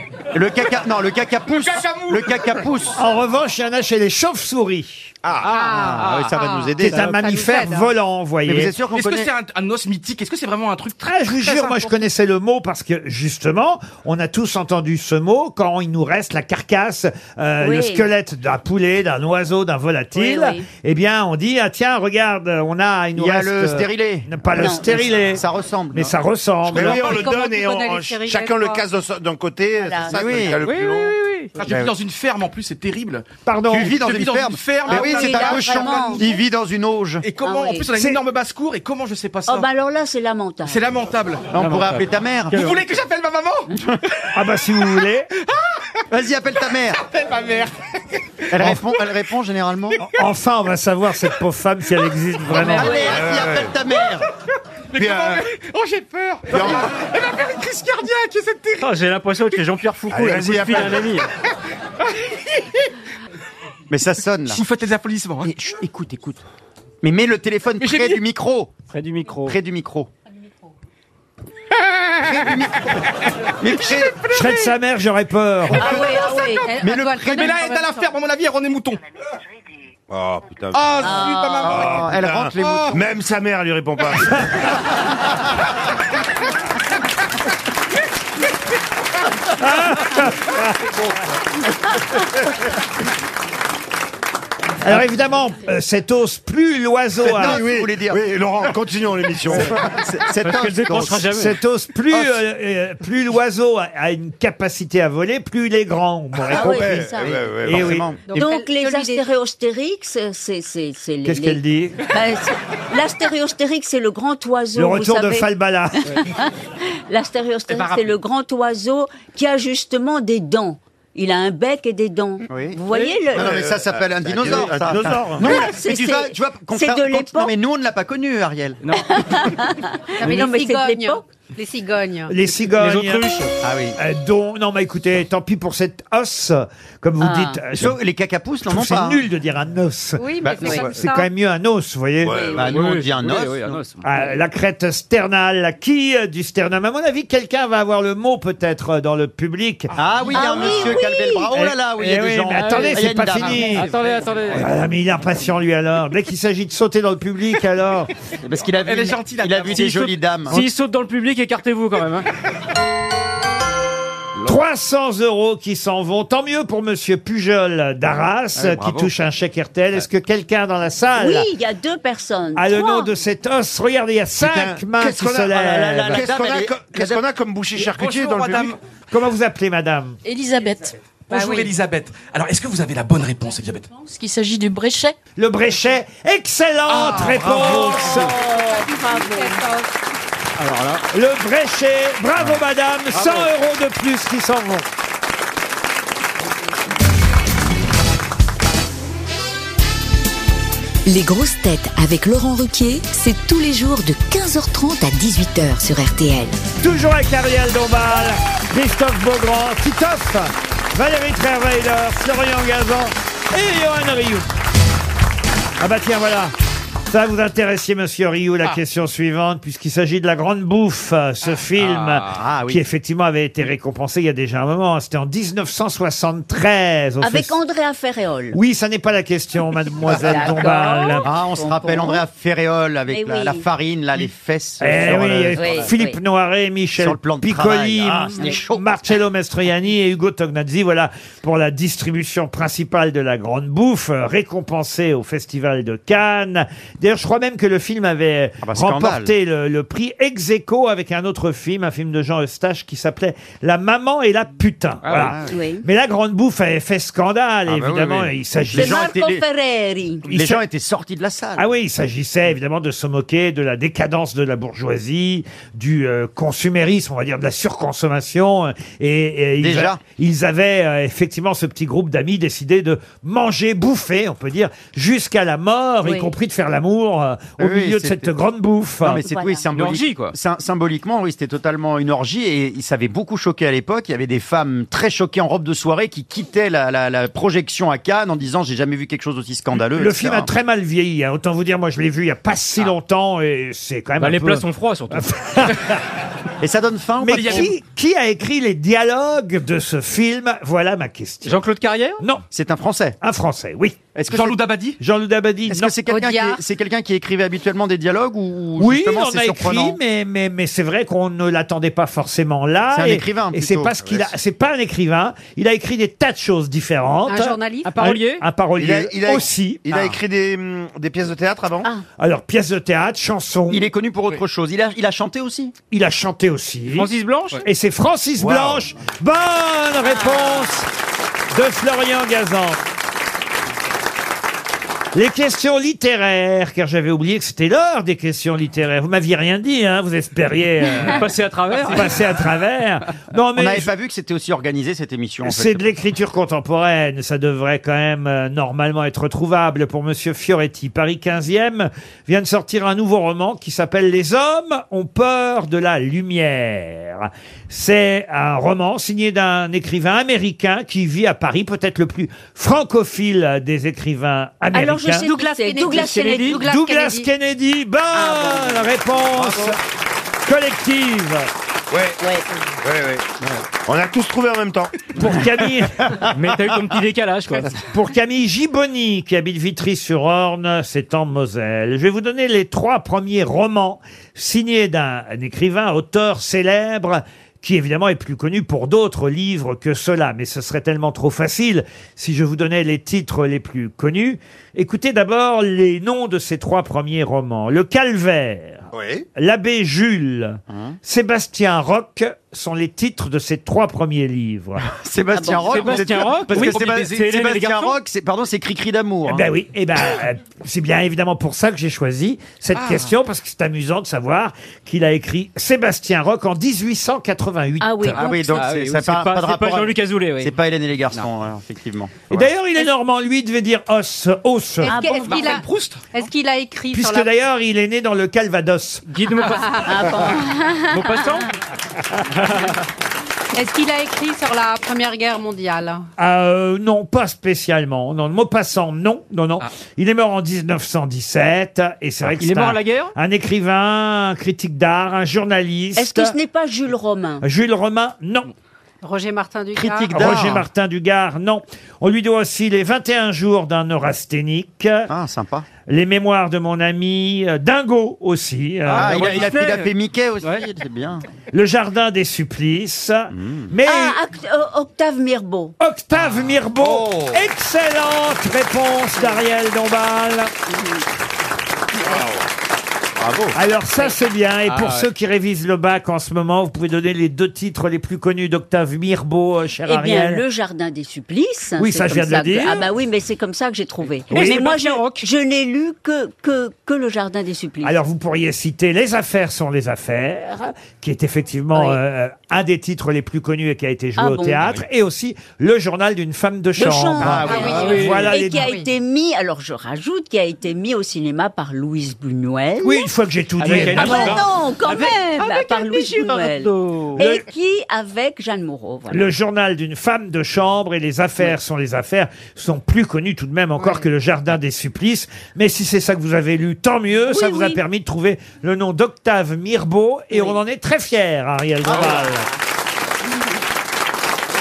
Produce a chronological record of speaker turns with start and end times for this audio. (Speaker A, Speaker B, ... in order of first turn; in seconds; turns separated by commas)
Speaker A: 0.3-3.0, Speaker B: 1.5-2.6, Speaker C: 2.9-5.1, Speaker D: 5.4-6.3, Speaker E: 5.5-7.9, Speaker A: 5.7-7.1, Speaker C: 6.8-8.7, Speaker D: 6.8-7.2, Speaker A: 8.4-9.3, Speaker B: 8.9-11.9, Speaker C: 11.0-27.3, Speaker F: 17.6-18.1, Speaker F: 20.1-20.7, Speaker A: 23.2-26.1, Speaker F: 24.6-25.1, Speaker G: 26.7-31.2, Speaker E: 26.8-28.9, Speaker F: 29.8-30.4, Speaker A: 30.1-30.6, Speaker D: 30.6-31.6, Speaker B: 31.6-33.2, Speaker A: 31.7-31.9, Speaker C: 33.5-34.0, Speaker A: 33.7-37.2, Speaker B: 33.8-36.4, Speaker F: 34.9-36.3, Speaker B: 37.2-39.7, Speaker F: 37.4-37.9, Speaker F: 39.5-40.8, Speaker B: 40.6-41.5, Speaker A: 41.5-42.8, Speaker D: 41.6-42.6, Speaker B: 42.5-44.2, Speaker A: 43.7-44.0, Speaker C: 44.3-45.3, Speaker A: 46.1-47.0, Speaker B: 47.0-47.8, Speaker A: 48.5-50.0, Speaker B: 48.6-48.9, Speaker C: 50.1-53.1, Speaker A: 52.5-54.3, Speaker G: 52.6-53.7, Speaker F: 52.6-53.2, Speaker B: 54.9-58.8, Speaker G: 54.9-55.5, Speaker G: 56.5-56.9, Speaker D: 58.8-61.3, Speaker G: 60.1-61.2, Speaker A: 63.9-64.6, Speaker B: 64.5-65.5, Speaker A: 65.4-66.4, Speaker A: 67.0-68.8, Speaker B: 67.8-68.2, Speaker D: 68.9-69.6, Speaker A: 69.5-70.1, Speaker A: 72.2-72.8, Speaker A: 73.6-74.2, Speaker B: 73.7-74.7, Speaker C: 74.3-76.0, Speaker E: 75.8-78.1, Speaker F: 75.8-76.7, Speaker A: 75.8-77.6, Speaker B: 77.2-79.0, Speaker G: 80.1-84.7, Speaker B: 80.7-83.0, Speaker F: 81.0-81.7, Speaker A: 81.6-83.0, Speaker C: 89.6-90.7, Speaker C: 94.8-97.6, Speaker A: 97.2-98.3, Speaker G: 97.4-100.0, Speaker A: 99.5-101.3, Speaker D: 100.4-101.5, Speaker C: 101.3-108.1, Speaker G: 106.5-108.2, Speaker F: 106.5-107.3, Speaker A: 107.2-108.5, Speaker E: 108.3-109.3, Speaker F: 108.3-115.5, Speaker C: 111.2-112.0, Speaker C: 114.8-116.2, Speaker F: 116.1-123.6, Speaker A: 122.5-128.8, Speaker G: 123.3-125.6, Speaker F: 125.4-127.5, Speaker D: 128.8-129.6, Speaker F: 128.9-131.2, Speaker E: 130.2-132.4, Speaker C: 132.3-138.0, Speaker D: 132.8-133.6, Speaker A: 133.6-134.0, Speaker F: 137.2-137.6, Speaker A: 137.8-139.2, Speaker C: 138.6-142.6, Speaker E: 140.2-141.3, Speaker A: 140.4-141.0, Speaker G: 142.2-143.0, Speaker A: 142.5-143.8, Speaker D: 142.7-144.0, Speaker C: 144.0-149.9, Speaker A: 149.9-153.9, Speaker F: 150.3-151.5, Speaker C: 151.9-153.9, Speaker D: 152.6-154.7, Speaker C: 154.5-158.1, Speaker A: 158.4-160.7, Speaker B: 158.8-160.1, Speaker D: 159.8-162.3, Speaker C: 164.4-171.5, Speaker A: 168.6-169.1, Speaker F: 171.2-173.1, Speaker C: 172.6-176.3, Speaker G: 174.4-178.8, Speaker A: 175.5-177.2, Speaker B: 177.8-178.8, Speaker C: 179.1-180.2, Speaker H: 180.2-181.0, Speaker B: 181.3-183.9, Speaker E: 181.3-181.7, Speaker H: 183.9-185.2, Speaker C: 185.4-188.3, Speaker B: 186.9-188.0, Speaker E: 187.7-189.9, Speaker F: 188.1-189.6, Speaker D: 190.6-191.0, Speaker C: 191.1-194.9, Speaker D: 193.1-193.5, Speaker I: 201.1-206.6, Speaker C: 206.8-214.5, Speaker C: 215.8-216.5, Speaker C: 217.1-227.6, Speaker D: 221.8-222.3, Speaker A: 222.3-222.8, Speaker F: 227.2-228.6, Speaker C: 228.5-231.3, Speaker F: 230.1-232.2, Speaker A: 231.2-235.9, Speaker F: 233.1-233.6, Speaker C: 234.8-259.1, Speaker F: 235.6-236.2, Speaker A: 237.0-238.8, Speaker A: 248.6-249.3, Speaker D: 255.0-255.3, Speaker A: 255.1-255.6, Speaker F: 255.5-255.8, Speaker G: 257.7-258.3, Speaker A: 258.7-259.4, Speaker F: 258.8-260.3, Speaker A: 260.2-261.7, Speaker C: 260.3-260.6, Speaker C: 261.6-279.2, Speaker A: 269.6-270.0, Speaker F: 276.0-276.3, Speaker A: 277.6-278.3, Speaker A: 279.0-290.5, Speaker F: 279.2-279.6, Speaker D: 279.7-280.4, Speaker C: 289.9-296.1, Speaker D: 294.2-295.3, Speaker A: 296.6-297.7, Speaker C: 297.2-301.6, Speaker B: 297.3-297.7, Speaker D: 301.4-302.2, Speaker A: 302.5-303.2, Speaker C: 303.2-304.0, Speaker A: 304.1-304.6, Speaker B: 304.3-305.0, Speaker C: 305.0-305.9, Speaker A: 305.7-310.0, Speaker E: 306.1-306.6, Speaker C: 308.8-319.9, Speaker A: 312.9-314.0, Speaker G: 314.0-314.3, Speaker E: 317.3-318.0, Speaker D: 317.9-318.4, Speaker G: 318.8-321.9, Speaker A: 319.9-320.2, Speaker C: 322.2-323.9, Speaker A: 323.7-325.7, Speaker C: 325.9-327.1, Speaker D: 326.9-327.6, Speaker C: 327.6-330.9, Speaker G: 328.4-328.9, Speaker F: 330.1-330.6, Speaker C: 331.5-332.8, Speaker C: 335.1-343.9, Speaker D: 341.1-342.2, Speaker A: 343.6-345.9, Speaker C: 345.4-365.4, Speaker F: 364.7-366.6, Speaker E: 365.3-367.3, Speaker D: 365.9-366.6, Speaker C: 366.6-369.8, Speaker F: 368.2-368.8, Speaker G: 369.3-369.8, Speaker C: 370.4-371.5, Speaker G: 371.9-372.2, Speaker F: 372.2-372.4, Speaker G: 372.8-375.1, Speaker C: 375.1-376.1, Speaker D: 376.2-377.8, Speaker C: 377.9-404.8, Speaker G: 398.9-399.3, Speaker A: 400.7-401.0, Speaker A: 404.9-409.5, Speaker F: 405.3-406.0, Speaker D: 405.5-408.0, Speaker B: 406.0-407.2, Speaker C: 409.3-418.2, Speaker B: 412.8-413.1, Speaker F: 417.8-418.7, Speaker A: 418.1-422.5, Speaker D: 418.2-420.6, Speaker C: 422.3-425.1, Speaker E: 424.8-427.3, Speaker F: 424.9-425.6, Speaker B: 425.1-426.2, Speaker C: 426.9-429.0, Speaker D: 429.1-430.0, Speaker E: 429.5-429.9, Speaker F: 429.8-431.4, Speaker D: 430.9-431.5, Speaker E: 433.5-436.1, Speaker C: 436.2-446.4, Speaker D: 442.3-443.1, Speaker F: 446.0-447.5, Speaker C: 447.4-448.5, Speaker E: 449.0-450.3, Speaker A: 449.8-450.6, Speaker C: 450.1-455.1, Speaker A: 455.1-455.7, Speaker C: 455.9-459.5, Speaker D: 458.9-460.6, Speaker A: 458.9-461.2, Speaker C: 461.5-464.2, Speaker A: 463.3-463.7, Speaker F: 463.9-465.8, Speaker C: 465.8-470.5, Speaker G: 466.8-467.4, Speaker F: 470.7-471.1, Speaker F: 471.9-472.3, Speaker G: 472.1-472.4, Speaker G: 473.2-473.5, Speaker C: 473.5-480.4, Speaker D: 474.7-475.1, Speaker F: 479.9-488.0, Speaker C: 481.8-482.9, Speaker D: 484.3-485.3, Speaker C: 484.3-484.7, Speaker C: 487.8-498.7, Speaker F: 491.7-492.0, Speaker F: 494.2-494.6, Speaker F: 496.8-503.1, Speaker A: 497.2-497.8, Speaker E: 497.4-498.9, Speaker D: 497.5-498.3, Speaker C: 502.8-504.4, Speaker D: 503.6-507.2, Speaker F: 503.7-509.3, Speaker C: 507.2-507.4, Speaker C: 509.1-522.5, Speaker F: 517.3-517.8